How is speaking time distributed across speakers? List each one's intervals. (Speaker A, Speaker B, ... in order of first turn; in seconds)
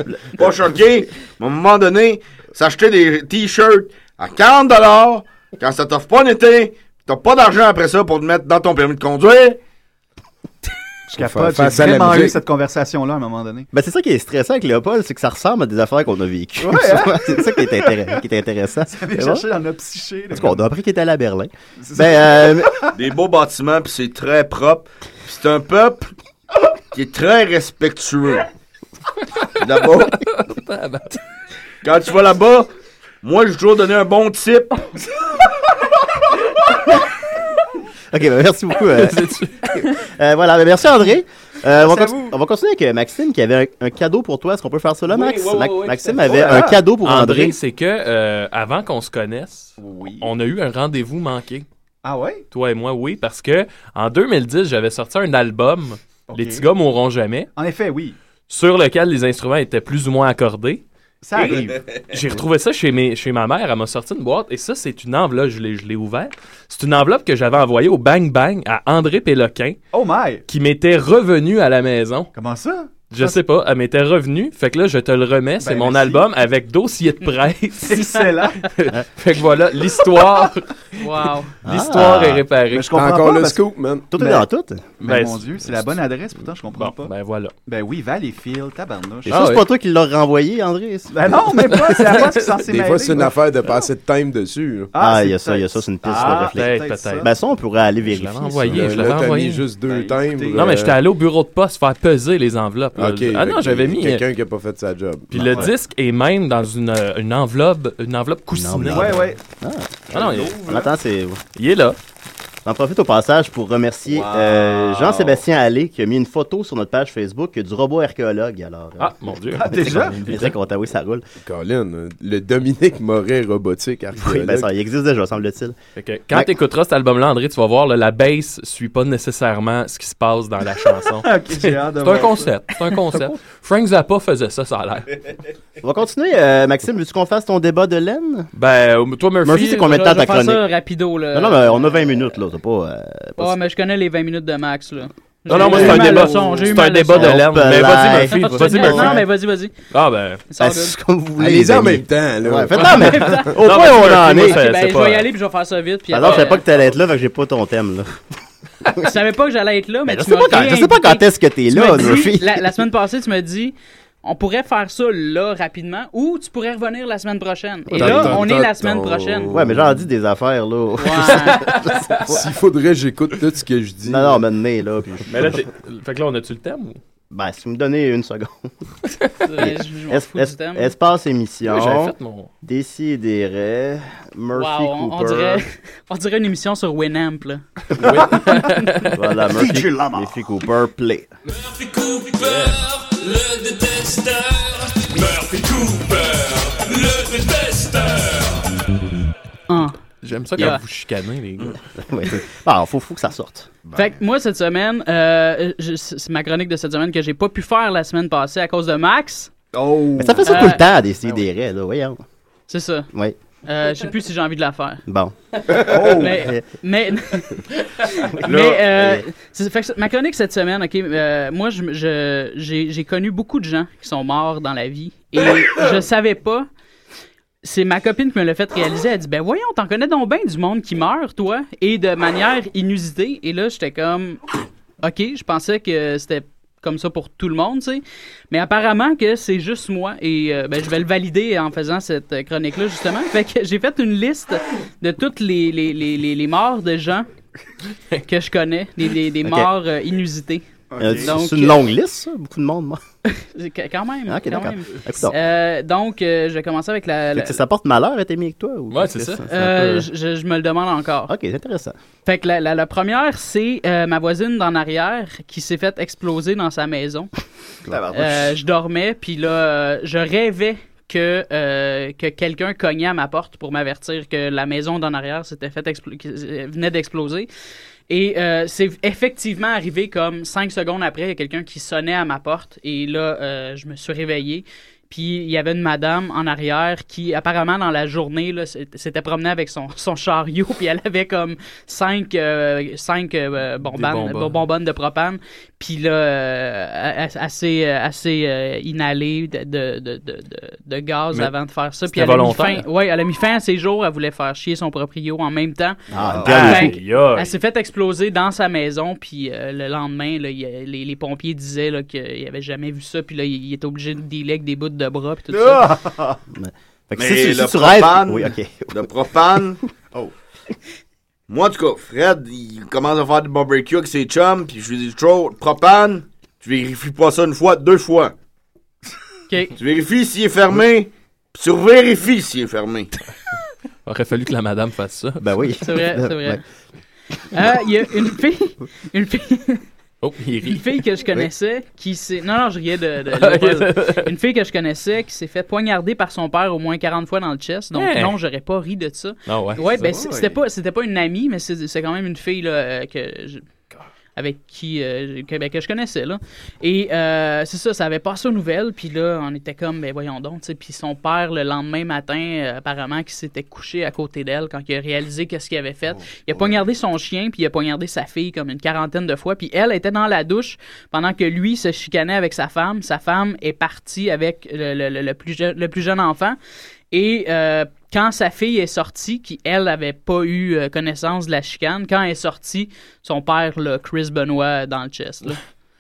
Speaker A: 0.4-9.6, 22.9-26.1, 26.9-28.5, 29.6-30.2, 31.8-32.7, 33.2-34.8, 317.2-319.8, 321.5-328.3, 329.8-333.1
Speaker B: 11.1-13.7, 16.6-18.0, 18.9-20.6, 21.8-22.9, 41.8-42.4, 46.2-46.8, 49.8-50.3, 52.0-52.4, 56.3-56.7, 57.6-58.2, 61.2-61.8, 69.9-70.4, 72.3-73.4, 75.6-76.2, 77.8-78.7, 82.7-83.6, 84.2-84.5, 85.0-87.1, 87.7-89.5, 91.1-93.3, 94.9-97.3, 99.9-100.8, 105.5-105.8, 108.9-109.4, 110.1-110.9, 114.1-115.4, 119.5-120.3, 131.2-132.6, 189.5-190.4, 209.7-211.4, 215.8-216.4, 250.9-251.3, 267.9-268.6, 306.2-306.8, 315.5-316.4, 350.0-350.6
Speaker C: 11.1-12.4, 82.9-84.1, 92.7-94.9, 98.7-101.0, 103.0-105.7, 121.4-124.7, 151.4-152.9, 167.9-170.1, 172.3-174.4
Speaker D: 13.7-19.4, 20.3-22.8, 38.1-47.6, 81.6-82.5, 84.1-84.9, 89.3-91.4, 95.0-98.9, 108.5-110.0, 110.6-111.4, 112.7-121.2, 124.2-125.8, 135.8-138.5, 139.4-140.7, 141.3-143.6, 145.6-146.4, 147.1-149.2, 150.6-154.6, 156.1-158.2, 160.1-162.8, 167.9-168.4, 169.5-172.4, 174.1-175.6, 177.3-178.7, 179.6-185.6, 189.2-191.3, 202.0-203.8, 210.2-212.2, 215.1-216.7, 218.4-219.2, 249.4-249.7, 251.0-253.0, 254.3-255.4, 257.3-259.6, 261.3-262.0, 306.1-306.9, 316.5-318.9, 335.4-336.6
Speaker E: 30.1-31.2, 39.0-39.7, 45.1-51.7, 52.5-57.5, 58.5-60.8, 61.4-69.8, 70.5-72.3, 73.1-80.7, 81.7-82.9, 85.0-85.9, 86.7-87.5, 89.3-89.6, 91.7-92.5, 96.1-97.3, 98.0-99.7, 100.5-104.2, 105.3-109.3, 110.1-110.6, 111.5-112.0, 119.0-120.5, 126.0-135.2, 138.5-139.8, 145.5-149.2, 149.9-150.4, 152.8-155.3, 171.6-172.2, 175.3-177.0, 181.7-182.5, 187.9-189.2, 192.4-192.8, 200.2-201.8, 258.9-260.1, 293.8-294.6, 302.1-302.8, 306.4-307.5, 334.1-335.4, 340.2-341.0, 343.3-344.3, 347.9-348.4, 349.5-350.2
Speaker F: 81.0-81.5, 139.7-142.2, 143.4-147.5, 148.3-149.7, 150.5-150.9, 152.8-156.7, 159.0-169.6, 171.0-172.0, 179.5-180.9, 184.5-187.6, 188.5-188.9, 199.7-200.0, 203.9-209.5, 210.4-210.8, 212.7-213.1, 213.7-215.0, 215.8-226.7, 227.6-234.4, 235.0-247.3, 248.2-251.8, 253.3-257.6, 259.4-261.3, 262.3-267.3, 268.1-277.5, 278.1-316.0, 329.5-329.8, 335.8-336.6, 337.5-339.8, 340.6-353.6, 354.4-376.6, 377.1-385.6
Speaker G: 191.4-198.8